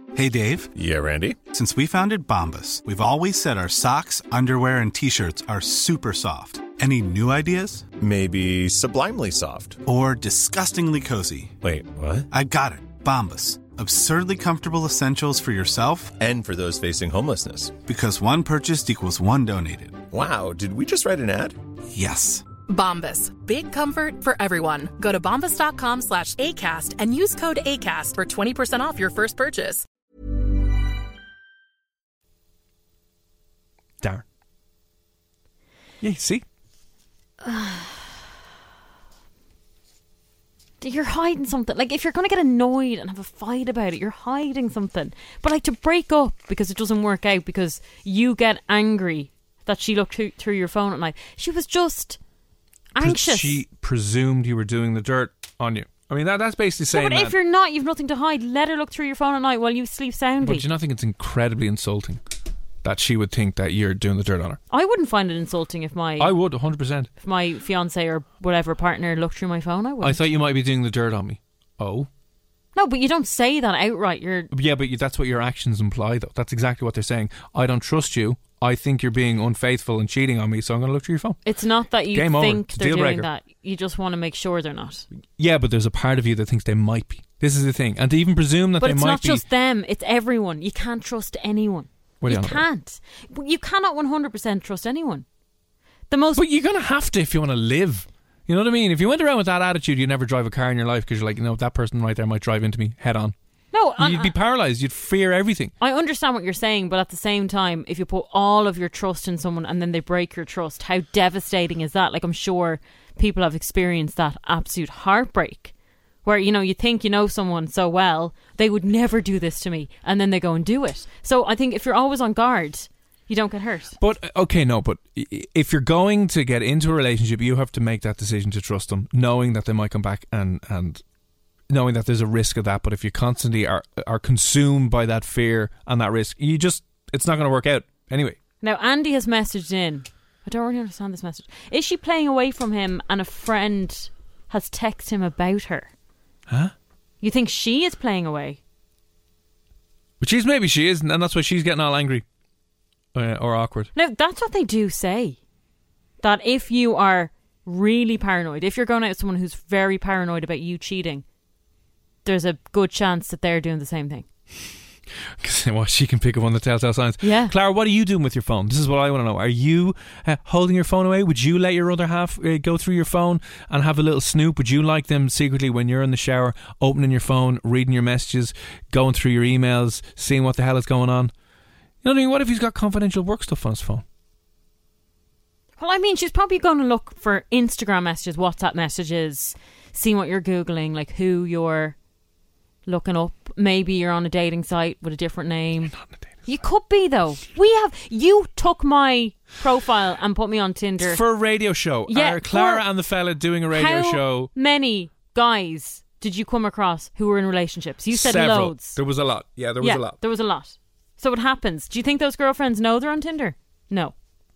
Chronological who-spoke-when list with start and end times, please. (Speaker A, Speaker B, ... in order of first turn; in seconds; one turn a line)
Speaker A: 0.1-0.7
Speaker B: 0.7-1.4
Speaker A: 1.5-7.9
Speaker B: 8.0-9.8
Speaker A: 9.8-11.5
Speaker B: 11.6-12.3
Speaker A: 12.3-16.1
Speaker B: 16.2-17.8
Speaker A: 17.8-20.0
Speaker B: 20.1-21.6
Speaker A: 21.9-22.5
Speaker C: 22.7-29.8
Speaker D: 36.0-36.4
Speaker E: 37.4-38.1
Speaker E: 40.8-52.2
Speaker E: 52.9-53.6
Speaker D: 53.0-57.4
Speaker E: 56.9-60.6
Speaker D: 60.4-62.2
Speaker D: 62.8-64.6
Speaker E: 64.7-66.3
Speaker D: 66.2-67.1
Speaker E: 67.2-70.2
Speaker D: 70.0-72.1
Speaker E: 72.7-74.5
Speaker D: 74.5-81.4
Speaker E: 81.4-85.0
Speaker D: 82.1-83.3
Speaker D: 85.4-89.4
Speaker E: 88.8-95.2
Speaker D: 92.2-92.6
Speaker E: 96.1-96.4
Speaker D: 96.3-103.3
Speaker E: 103.7-104.3
Speaker D: 104.0-105.7
Speaker E: 105.8-115.7
Speaker E: 116.2-124.0
Speaker D: 124.0-131.0
Speaker D: 131.7-138.4
Speaker E: 138.6-145.9
Speaker D: 146.5-146.7
Speaker E: 147.2-148.6
Speaker D: 150.2-152.2
Speaker D: 153.1-153.9
Speaker E: 153.9-155.4
Speaker E: 156.2-161.2
Speaker E: 162.2-164.2
Speaker D: 165.4-181.3
Speaker E: 167.2-167.5
Speaker D: 182.0-184.0
Speaker E: 185.8-191.9
Speaker E: 192.8-195.9
Speaker D: 195.9-196.2
Speaker E: 196.5-201.2
Speaker D: 201.0-204.5
Speaker E: 202.1-202.8
Speaker E: 203.7-209.0
Speaker D: 208.1-210.2
Speaker E: 209.8-214.1